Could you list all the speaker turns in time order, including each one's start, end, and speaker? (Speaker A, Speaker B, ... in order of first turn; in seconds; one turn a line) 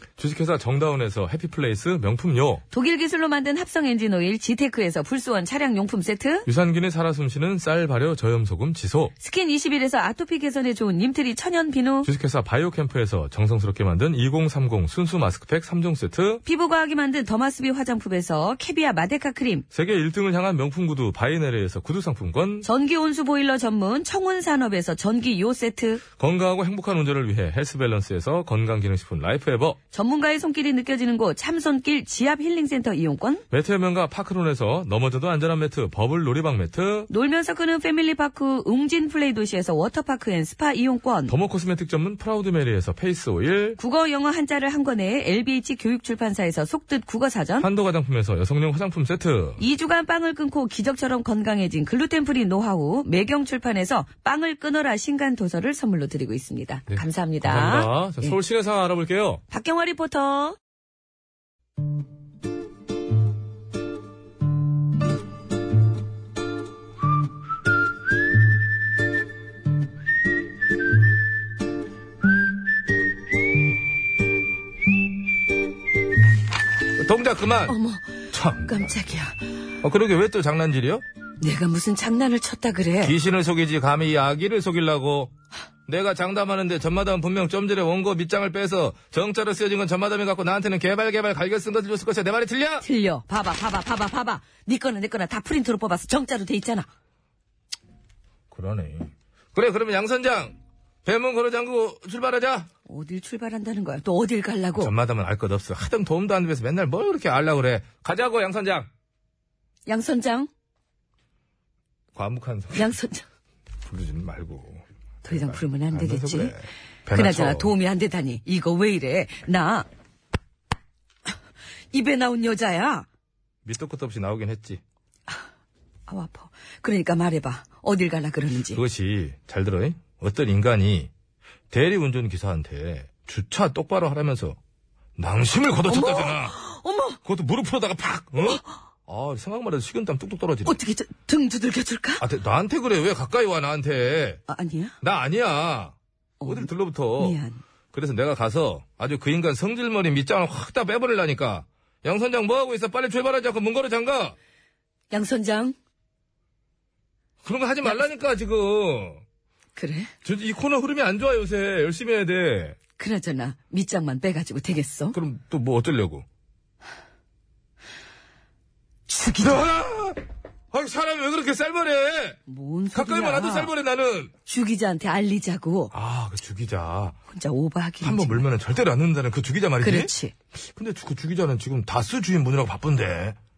Speaker A: 0.2-2.6
Speaker B: 2.7-6.5
Speaker A: 6.5-9.1
Speaker B: 9.2-12.1
Speaker A: 12.0-16.4
Speaker B: 16.4-19.6
Speaker A: 19.7-22.7
Speaker B: 22.6-26.0
Speaker A: 26.2-29.8
Speaker B: 29.9-33.4
Speaker A: 33.5-37.1
Speaker B: 37.1-41.4
Speaker A: 41.3-43.8
Speaker B: 43.8-47.7
Speaker A: 47.6-49.6
Speaker B: 49.6-58.4
Speaker A: 56.9-59.4
Speaker B: 59.5-60.6
Speaker A: 77.0-77.7
Speaker B: 77.7-78.1
Speaker A: 78.3-78.9
Speaker B: 78.7-79.4
Speaker A: 79.8-81.0
Speaker B: 81.4-83.1
Speaker A: 83.0-85.3
Speaker A: 85.9-92.8
Speaker B: 92.8-96.9
Speaker A: 98.5-102.7
Speaker B: 102.9-104.9
Speaker A: 104.8-108.9
Speaker B: 109.9-110.5
Speaker A: 112.1-112.9
Speaker B: 112.8-113.2
Speaker A: 113.8-117.7
Speaker B: 115.2-116.5
Speaker B: 117.1-119.8
Speaker B: 121.9-123.0
Speaker A: 123.6-124.8
Speaker B: 126.1-128.8
Speaker A: 128.7-131.1
Speaker A: 131.7-134.6
Speaker A: 135.2-136.6
Speaker B: 135.9-137.2
Speaker A: 137.2-140.8
Speaker B: 140.7-142.2
Speaker A: 142.2-144.4
Speaker B: 144.5-144.9
Speaker A: 145.0-147.4
Speaker B: 147.2-147.6
Speaker A: 147.9-154.3
Speaker B: 155.1-155.7
Speaker A: 157.4-159.2
Speaker B: 159.8-160.1
Speaker A: 160.2-162.8
Speaker B: 163.0-165.2
Speaker A: 165.1-166.2
Speaker B: 169.1-169.6
Speaker A: 169.4-170.2
Speaker A: 170.7-172.4
Speaker B: 172.5-173.7
Speaker A: 172.9-174.3
Speaker B: 174.5-175.9
Speaker A: 175.9-177.2
Speaker B: 177.3-178.4
Speaker A: 178.0-183.3
Speaker B: 179.8-180.3